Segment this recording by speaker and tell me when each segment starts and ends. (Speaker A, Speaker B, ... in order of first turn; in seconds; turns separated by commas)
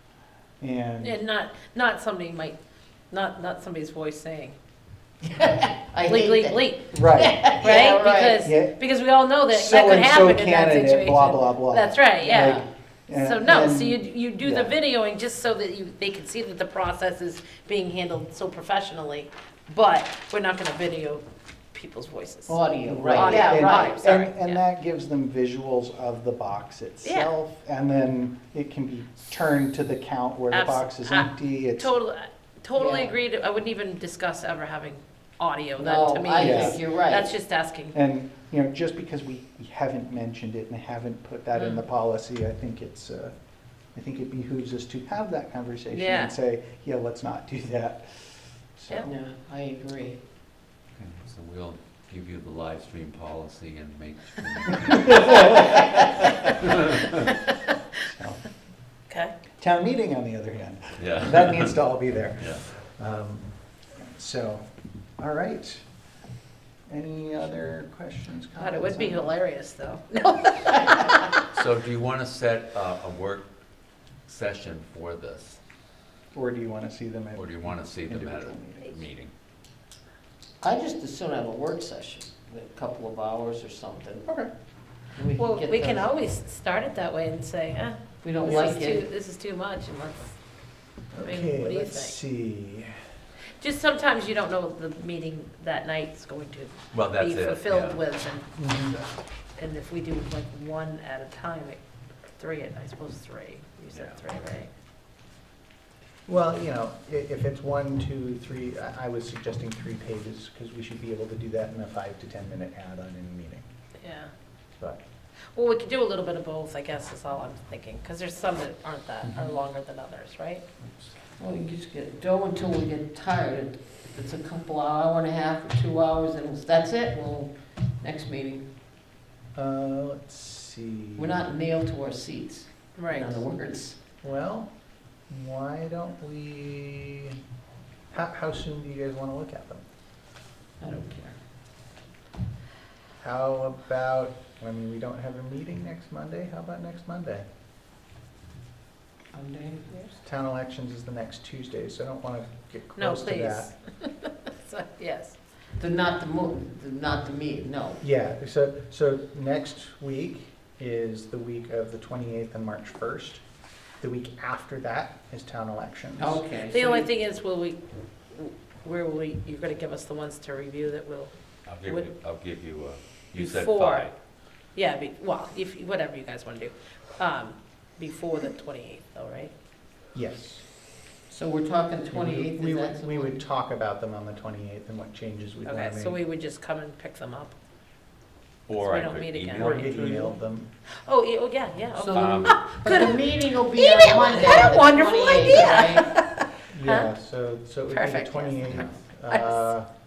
Speaker A: 0.6-1.2, Speaker B: 1.0-2.6, Speaker B: 3.1-4.6, Speaker C: 5.4-8.5, Speaker B: 6.0-24.6, Speaker A: 6.9-7.6, Speaker A: 8.4-8.8, Speaker A: 9.5-14.8, Speaker C: 12.2-12.6, Speaker C: 22.5-24.0, Speaker A: 22.9-31.9, Speaker B: 30.5-37.9, Speaker C: 32.7-33.1, Speaker C: 35.8-37.3, Speaker A: 36.4-36.8, Speaker A: 37.9-43.4, Speaker B: 41.5-41.8, Speaker A: 43.9-49.1, Speaker B: 45.9-46.3, Speaker C: 49.0-50.2, Speaker D: 51.0-55.6, Speaker A: 55.1-55.5, Speaker A: 58.0-58.4, Speaker B: 59.1-59.3, Speaker A: 59.6-65.9, Speaker D: 61.0-61.8, Speaker D: 62.4-62.6, Speaker A: 66.9-69.3, Speaker B: 68.5-71.4, Speaker D: 71.5-73.5, Speaker D: 74.3-75.6, Speaker A: 76.3-79.0, Speaker D: 77.3-79.3, Speaker C: 80.6-84.3, Speaker A: 84.2-84.5, Speaker C: 85.1-86.1, Speaker B: 85.3-90.4, Speaker C: 88.2-89.0, Speaker A: 91.1-93.0, Speaker B: 91.2-92.2, Speaker B: 93.6-99.0, Speaker D: 96.9-98.0, Speaker A: 98.6-99.0, Speaker B: 99.5-101.8, Speaker B: 102.4-104.7, Speaker D: 103.9-104.2, Speaker A: 106.3-113.7, Speaker B: 114.0-114.3, Speaker B: 115.5-120.6, Speaker A: 119.2-119.5, Speaker A: 120.8-121.1, Speaker C: 121.4-128.7, Speaker A: 129.5-131.4, Speaker C: 131.2-134.0, Speaker B: 133.0-133.4, Speaker A: 134.2-134.7, Speaker A: 135.3-137.4, Speaker A: 138.1-139.8, Speaker C: 140.8-141.3, Speaker A: 143.2-147.5, Speaker C: 149.3-150.1, Speaker A: 150.2-153.7, Speaker B: 152.9-155.4, Speaker C: 155.8-158.0, Speaker A: 158.0-163.4, Speaker A: 164.0-166.4, Speaker C: 166.2-167.1, Speaker B: 166.7-172.1, Speaker D: 171.7-174.1, Speaker B: 173.3-174.1, Speaker B: 174.7-179.5, Speaker A: 180.1-180.6, Speaker C: 181.3-183.4, Speaker A: 182.1-186.2, Speaker B: 185.6-187.5, Speaker D: 188.7-190.4, Speaker B: 188.8-189.9, Speaker A: 189.6-190.7, Speaker B: 191.0-197.1, Speaker C: 191.9-196.1, Speaker D: 192.1-192.6, Speaker A: 196.7-199.9, Speaker B: 197.9-199.7, Speaker C: 198.6-198.9